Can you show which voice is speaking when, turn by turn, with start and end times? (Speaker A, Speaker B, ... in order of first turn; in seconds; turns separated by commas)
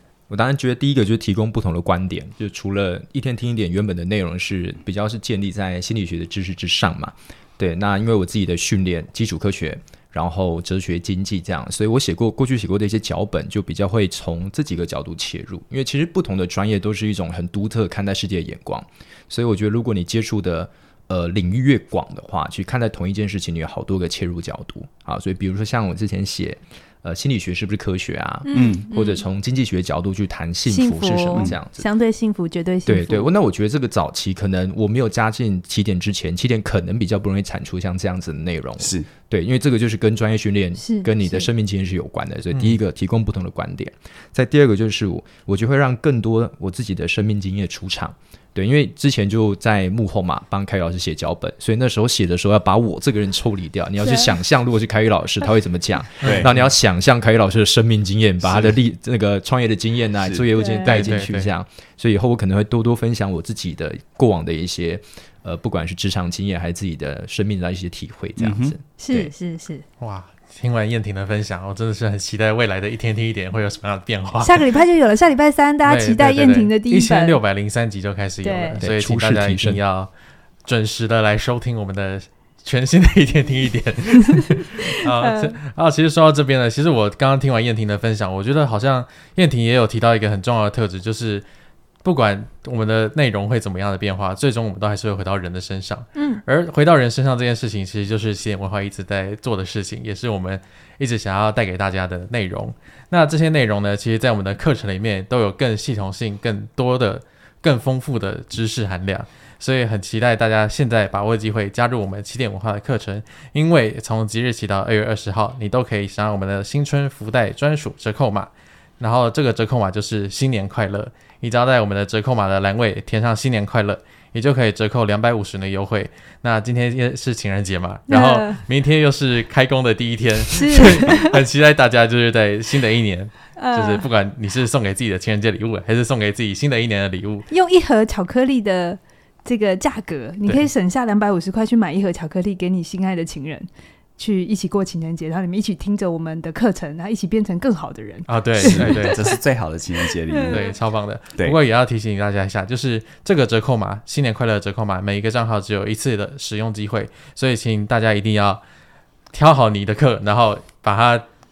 Speaker A: 0.3-31.8, Speaker B: 28.4-29.2, Speaker C: 28.5-28.9, Speaker B: 30.7-33.3, Speaker A: 32.9-69.3, Speaker C: 38.8-39.1, Speaker B: 40.8-41.5, Speaker D: 42.5-42.8, Speaker B: 54.0-54.4, Speaker D: 56.2-56.5, Speaker C: 56.2-56.7, Speaker C: 58.4-58.8, Speaker B: 60.5-61.1, Speaker D: 60.9-61.5, Speaker C: 68.4-68.8, Speaker B: 69.0-69.8, Speaker D: 70.0-74.6, Speaker B: 74.4-77.4, Speaker D: 75.8-80.1, Speaker B: 78.4-78.8, Speaker A: 78.8-79.8, Speaker D: 80.6-91.5, Speaker B: 85.0-85.5, Speaker D: 92.0-137.5, Speaker B: 96.2-96.4, Speaker B: 128.1-128.6, Speaker B: 130.5-131.4, Speaker B: 133.6-134.1, Speaker B: 137.5-149.3, Speaker D: 148.3-149.3, Speaker C: 148.6-150.7, Speaker B: 150.3-150.7, Speaker D: 150.5-158.6, Speaker D: 159.3-161.2